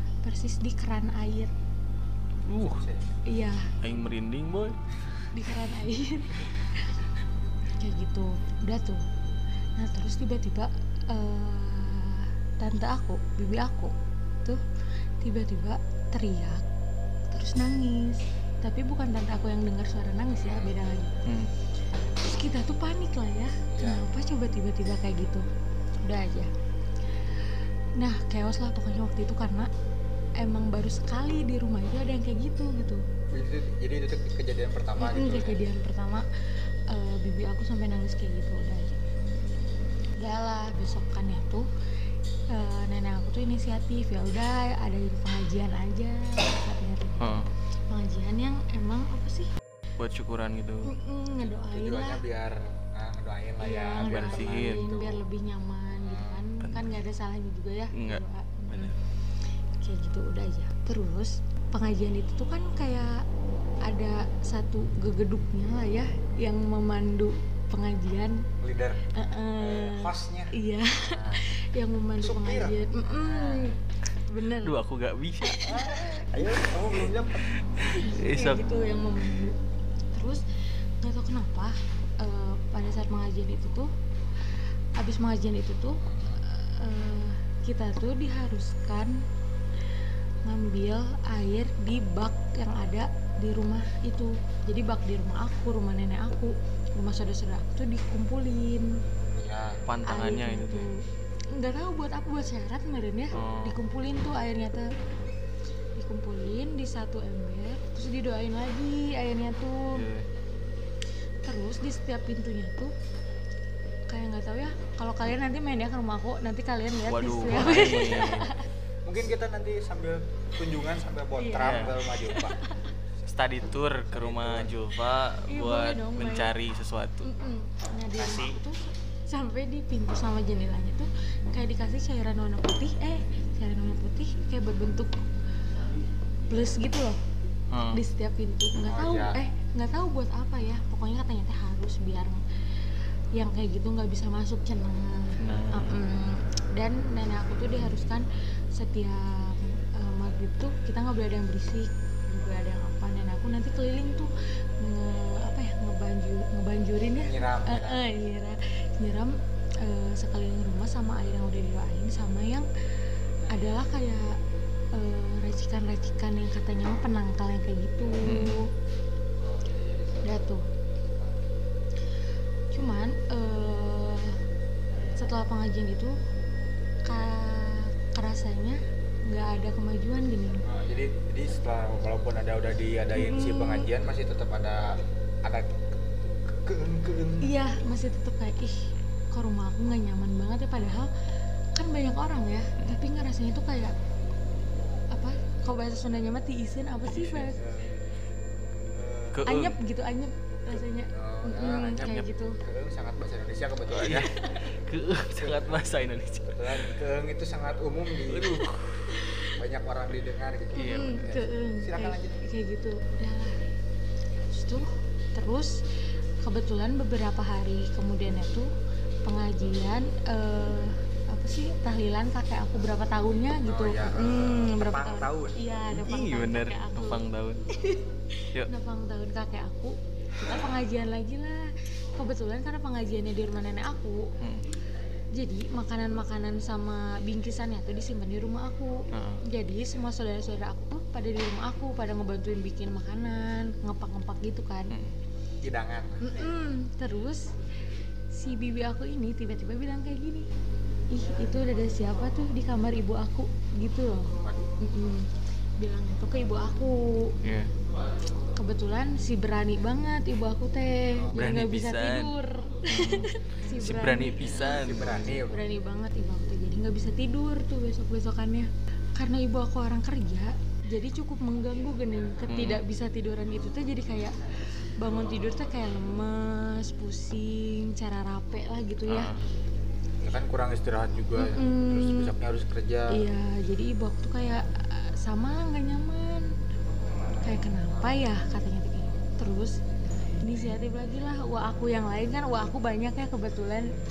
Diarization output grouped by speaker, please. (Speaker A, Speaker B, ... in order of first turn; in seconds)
Speaker A: 0.2-1.5, 3.3-3.7, 5.3-7.0, 7.7-9.0, 9.8-14.6, 15.2-16.6, 17.3-21.2, 22.2-25.4, 26.0-26.5, 28.0-29.7, 30.4-33.0, 35.0-36.3, 36.9-39.0, 40.2-41.7, 42.5-47.4, 47.9-49.5, 50.9-52.2, 53.6-59.0, 59.8-63.3, 63.8-68.5, 69.1-74.8, 75.4-76.2, 77.8-79.6, 80.1-80.4, 81.0-83.9, 85.0-89.2, 90.5-98.9, 100.0-101.0, 101.5-104.9, 106.0-110.0, 111.5-112.9, 114.1-118.7, 121.4-122.9, 125.5-126.5, 127.2-135.2, 136.5-137.2, 137.9-142.4, 143.3-162.7, 163.5-164.4, 164.9-168.7, 170.2-170.7, 172.7-174.4, 175.2-176.2, 177.1-180.6, 183.1-183.9, 187.4-191.2, 191.8-193.9, 195.1-197.6, 199.4-202.6, 209.1-209.5, 210.8-213.6, 214.5-215.8, 216.4-218.7, 219.2-234.3, 235.3-244.9, 246.2-247.5, 248.3-250.5, 251.1-257.4, 258.6-264.9, 265.4-274.4, 275.0-279.3, 281.4-282.3, 283.1-286.5, 287.4-289.8, 290.4-293.9
Speaker B: 2.4-2.9, 3.8-4.8, 21.2-21.5, 47.2-47.5, 50.0-50.9, 54.0-54.8, 56.6-56.9, 57.9-59.0, 74.6-75.8, 77.4-78.6, 99.9-100.9, 103.3-103.8, 109.9-110.3, 117.1-118.5, 121.6-122.1, 123.3-127.3, 137.7-138.0, 145.4-146.0, 168.2-168.7, 197.1-197.5, 199.3-199.8, 202.0-202.3, 203.9-206.9, 208.3-209.0, 210.8-211.3, 225.9-227.7, 234.4-234.7, 239.1-239.4, 257.4-257.7, 261.3-262.3, 262.9-265.4, 272.5-272.8, 279.1-279.4
Speaker C: 2.6-3.1, 20.4-20.7, 23.7-24.1, 33.3-35.6, 51.5-55.2, 56.0-56.5, 68.6-71.5, 72.2-73.8, 75.6-77.6, 86.0-86.4, 99.3-99.8, 119.0-122.6, 124.1-124.8, 128.2-128.6, 138.9-139.4, 157.2-158.0, 180.6-187.5, 197.6-198.0, 198.9-199.4, 201.1-204.3, 205.4-205.8, 206.5-208.6, 209.6-212.4, 223.7-225.6, 245.6-246.2, 254.4-254.7, 264.7-265.6, 280.2-283.2